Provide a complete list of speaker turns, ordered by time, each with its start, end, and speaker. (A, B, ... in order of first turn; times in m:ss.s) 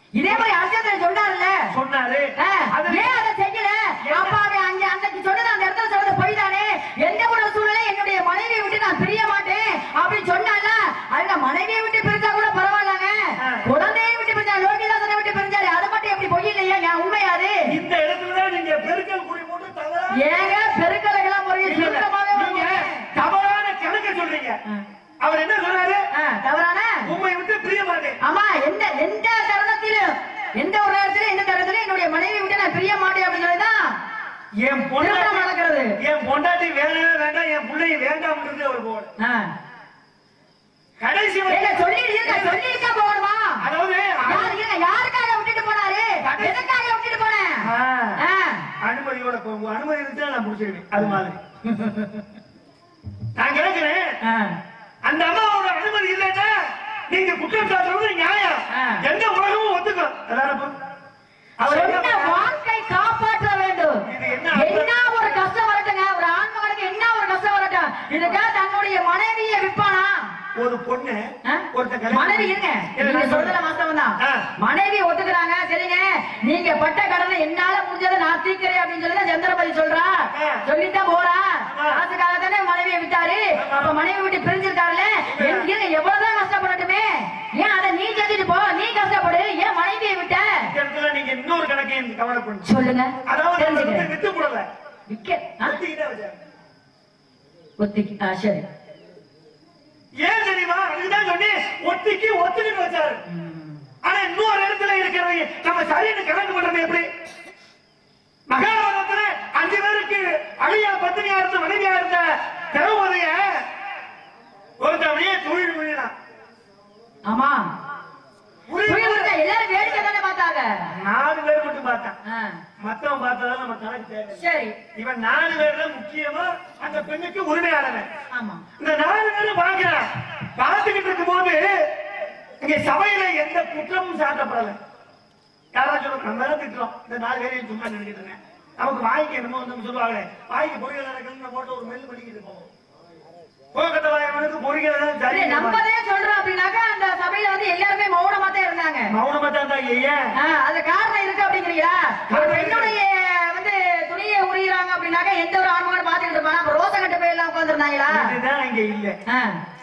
0:00.1-0:01.6 A
0:01.7-0:03.1 B
0:02.4-0:17.6 A
0:04.0-0:04.4 B
0:17.7-0:20.2 B
0:20.1-0:23.0 A
0:21.6-0:24.6 B
0:25.2-0:26.1 B
0:26.1-0:27.0 A
0:27.0-0:28.2 B
0:28.2-0:33.9 A
0:34.6-0:35.5 B
0:35.0-0:35.9 A
0:36.0-0:39.1 B
0:39.2-0:39.5 A
0:41.0-0:42.6 B
0:41.5-0:43.6 A
0:43.6-0:44.5 B
0:44.2-0:47.6 A
0:46.2-0:46.6 B
0:47.6-0:48.2 B
0:48.2-0:48.7 A
0:48.8-0:51.4 B
0:53.4-0:54.1 B
0:54.2-0:54.6 A
0:55.0-0:56.6 B
0:57.1-1:00.8 B
0:58.7-0:59.0 A
1:01.6-1:02.5 B
1:01.6-1:04.0 A
1:04.1-1:05.4 B
1:04.5-1:10.3 A
1:10.5-1:13.5 B
1:11.4-1:30.7 A
1:20.3-1:20.6 B
1:21.7-1:22.0 B
1:23.6-1:24.0 B
1:25.3-1:25.7 B
1:30.7-1:32.6 B
1:32.6-1:34.1 A
1:33.2-1:34.7 B
1:35.1-1:35.8 A
1:35.6-1:36.4 B
1:37.8-1:38.6 A
1:40.2-1:43.2 B
1:43.3-1:43.8 A
1:44.0-1:47.1 B
1:48.5-1:53.6 B
1:54.8-1:56.1 B
1:57.2-1:57.7 A
1:58.7-2:00.1 B
1:58.8-2:00.7 A
2:00.9-2:02.2 B
2:02.2-2:02.6 A
2:02.8-2:04.4 B
2:04.4-2:04.8 A
2:04.9-2:08.1 B
2:08.3-2:08.6 A
2:08.8-2:11.9 B
2:12.6-2:14.8 B
2:15.7-2:22.7 B
2:23.7-2:25.8 B
2:25.3-2:29.1 A
2:29.1-2:30.3 B
2:30.3-2:38.3 A
2:32.3-2:32.9 B
2:38.1-2:39.2 B
2:39.3-2:39.6 A